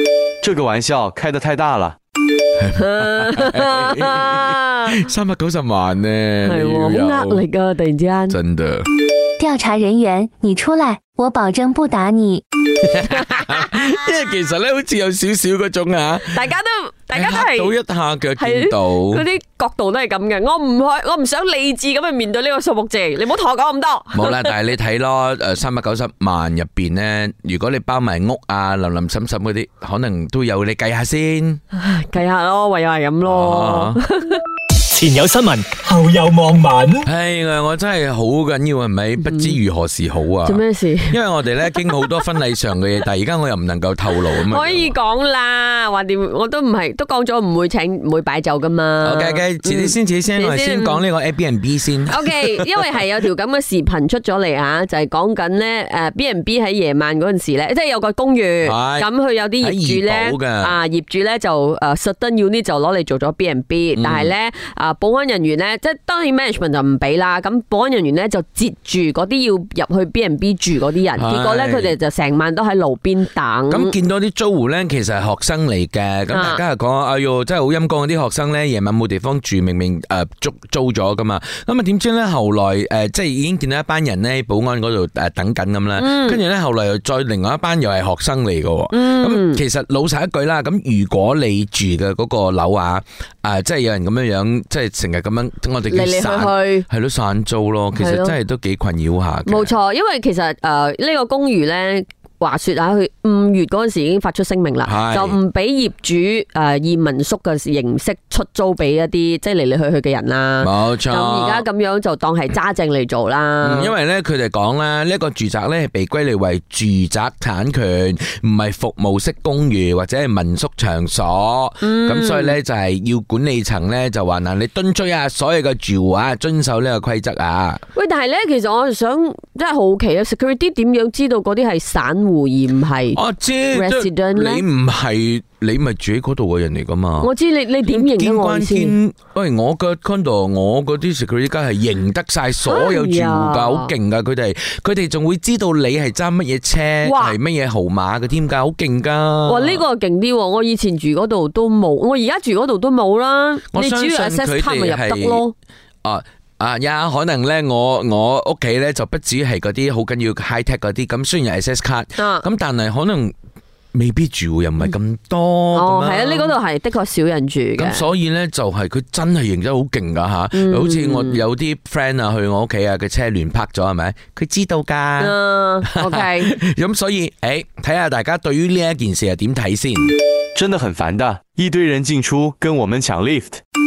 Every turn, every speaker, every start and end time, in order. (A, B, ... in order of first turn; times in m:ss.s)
0:00.4-0:02.0 A
0:02.6-0:07.4 B
0:02.8-0:04.9 C
0:06.4-0:08.4 C
0:08.3-0:08.9 B
0:09.4-0:12.4 D
0:12.8-0:16.4 B
0:16.3-0:17.7 C
0:17.1-0:19.2 B
0:18.4-0:24.6 C
0:24.1-0:31.6 B
0:31.7-0:34.4 C
0:33.2-0:34.0 B
0:34.9-0:36.9 E
0:37.0-0:45.0 B
0:39.2-0:39.6 C
0:40.4-0:42.3 C
0:44.2-0:51.0 C
0:49.0-0:52.7 B
0:52.1-1:13.9 C
0:58.6-0:59.1 B
0:59.6-1:00.8 B
1:03.9-1:04.3 B
1:11.1-1:11.9 B
1:13.7-1:39.8 B
1:16.3-1:16.6 C
1:26.0-1:26.4 C
1:28.9-1:29.6 C
1:35.9-1:36.8 C
1:38.0-1:38.4 C
1:39.4-1:53.9 C
1:44.8-1:45.4 B
1:50.6-1:51.6 B
1:53.6-2:07.8 B
2:01.8-2:02.6 C
2:07.9-2:13.2 C
2:13.1-2:17.3 B
2:13.7-2:14.6 C
2:17.2-2:19.0 C
2:17.8-2:29.8 B
2:22.6-2:23.9 C
2:27.0-2:27.4 C
2:29.4-2:35.5 C
2:33.7-2:35.4 B
2:36.0-2:43.3 B
2:42.2-2:42.4 C
2:43.9-2:46.6 B
2:45.7-2:48.0 C
2:47.8-2:55.4 B
2:50.5-2:51.4 C
2:55.2-2:56.5 C
2:55.9-3:00.1 B
3:00.5-3:03.6 A